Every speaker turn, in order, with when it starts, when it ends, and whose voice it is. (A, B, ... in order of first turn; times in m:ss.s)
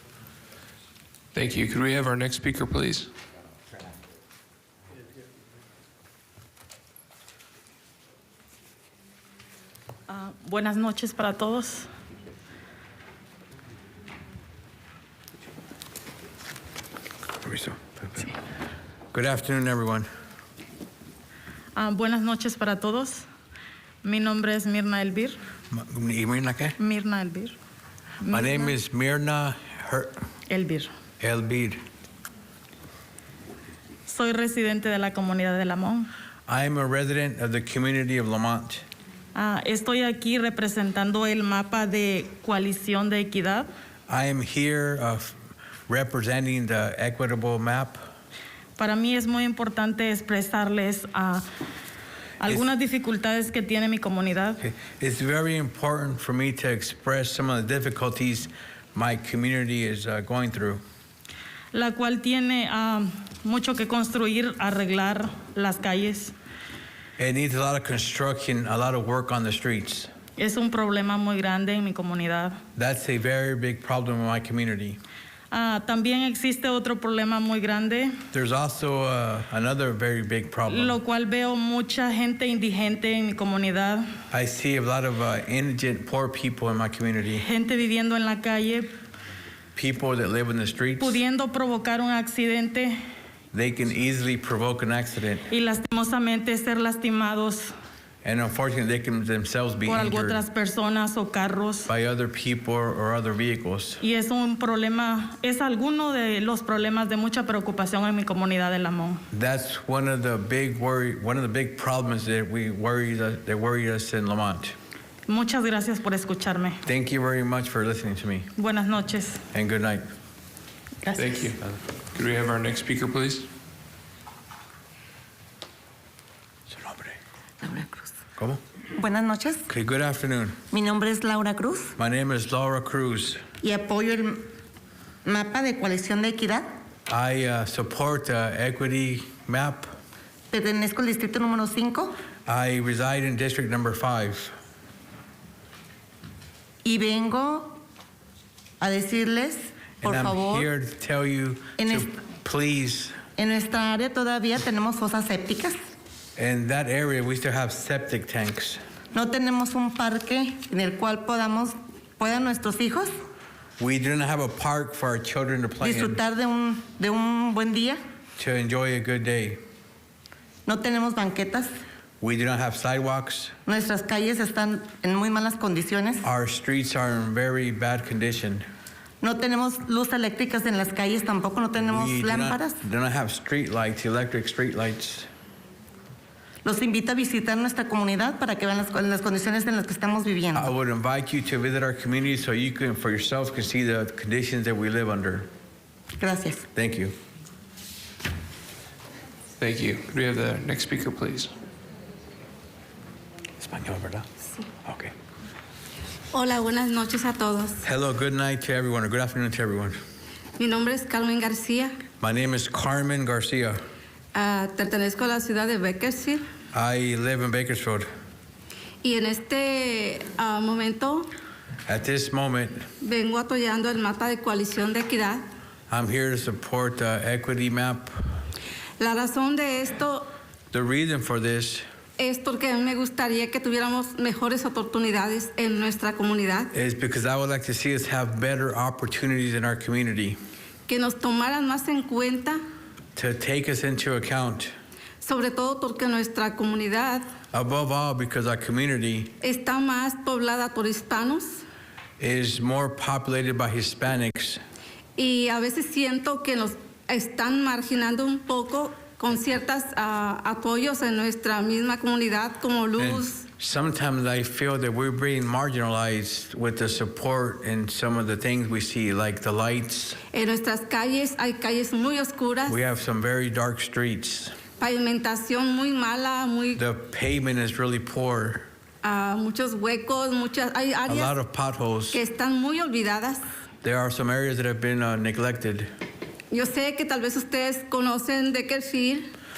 0:01.3-0:03.1 A
0:10.1-0:11.9 B
0:17.4-0:18.3 C
0:19.1-0:20.0 C
0:21.7-0:23.2 B
0:24.0-0:25.4 B
0:25.7-0:26.8 C
0:26.8-0:27.5 B
0:28.2-0:28.8 B
0:28.3-0:30.1 C
0:30.5-0:30.9 B
0:31.2-0:31.8 C
0:34.0-0:36.1 B
0:36.5-0:38.8 C
0:39.3-0:43.7 B
0:44.1-0:45.4 C
0:45.9-0:48.0 C
0:48.8-0:51.4 B
0:52.4-0:54.6 B
0:54.6-1:00.8 C
1:01.7-1:06.3 B
1:07.2-1:10.1 C
1:10.4-1:12.6 B
1:12.8-1:15.0 C
1:15.5-1:18.1 B
1:18.3-1:21.0 C
1:20.7-1:24.0 B
1:24.3-1:27.4 C
1:27.4-1:28.9 B
1:29.7-1:31.2 C
1:31.0-1:33.0 B
1:33.5-1:35.5 C
1:35.5-1:37.7 B
1:38.2-1:40.4 C
1:39.8-1:41.9 B
1:41.9-1:44.0 C
1:44.0-1:49.2 B
1:49.3-1:54.7 C
1:55.3-1:56.8 B
1:56.8-1:58.5 C
1:58.6-1:59.4 B
1:59.5-2:00.0 C
2:01.1-2:01.6 A
2:02.1-2:03.5 A
2:06.7-2:07.2 C
2:07.6-2:08.1 D
2:09.0-2:09.6 D
2:09.7-2:10.6 C
2:10.7-2:11.9 D
2:12.0-2:13.4 C
2:13.6-2:14.5 D
2:15.2-2:16.6 D
2:17.1-2:19.9 C
2:20.5-2:22.2 D
2:22.4-2:24.5 C
2:26.8-2:27.8 D
2:28.8-2:30.7 D
2:30.0-2:33.2 C
2:31.8-2:32.1 D
2:33.4-2:35.8 D
2:36.4-2:38.8 C
2:39.1-2:43.1 D
2:43.8-2:46.2 C
2:45.8-2:48.0 D
2:48.4-2:49.6 C
2:50.6-2:51.7 D
2:52.2-2:53.5 C
2:53.6-2:56.2 D
2:56.2-2:58.6 C
2:59.2-3:02.8 D
3:01.8-3:05.3 C
3:06.6-3:10.7 D
3:10.5-3:15.5 C
3:16.2-3:16.6 D
3:16.7-3:17.1 C
3:19.6-3:21.5 A
3:23.6-3:24.2 C
3:24.8-3:25.1 C
3:26.3-3:27.8 E
3:27.8-3:30.0 C
3:30.6-3:32.0 E
3:32.2-3:33.8 C
3:34.3-3:36.4 E
3:36.7-3:38.0 C
3:39.0-3:41.3 E
3:41.8-3:42.8 C
3:43.0-3:45.4 E
3:45.9-3:48.1 C
3:49.0-3:50.3 E
3:50.7-3:51.8 C
3:52.2-3:56.7 E
3:56.7-4:00.4 C
4:00.9-4:02.6 E
4:03.2-4:04.7 C
4:05.2-4:07.2 E
4:07.5-4:09.3 C
4:09.4-4:11.6 E
4:12.2-4:14.6 C
4:15.2-4:23.4 E
4:23.0-4:30.2 C
4:30.3-4:32.8 E
4:32.6-4:34.6 C
4:34.8-4:36.8 E
4:36.7-4:38.6 C
4:39.0-4:41.3 E
4:41.1-4:42.2 C
4:42.1-4:43.4 E
4:43.8-4:45.9 C
4:46.5-4:49.3 E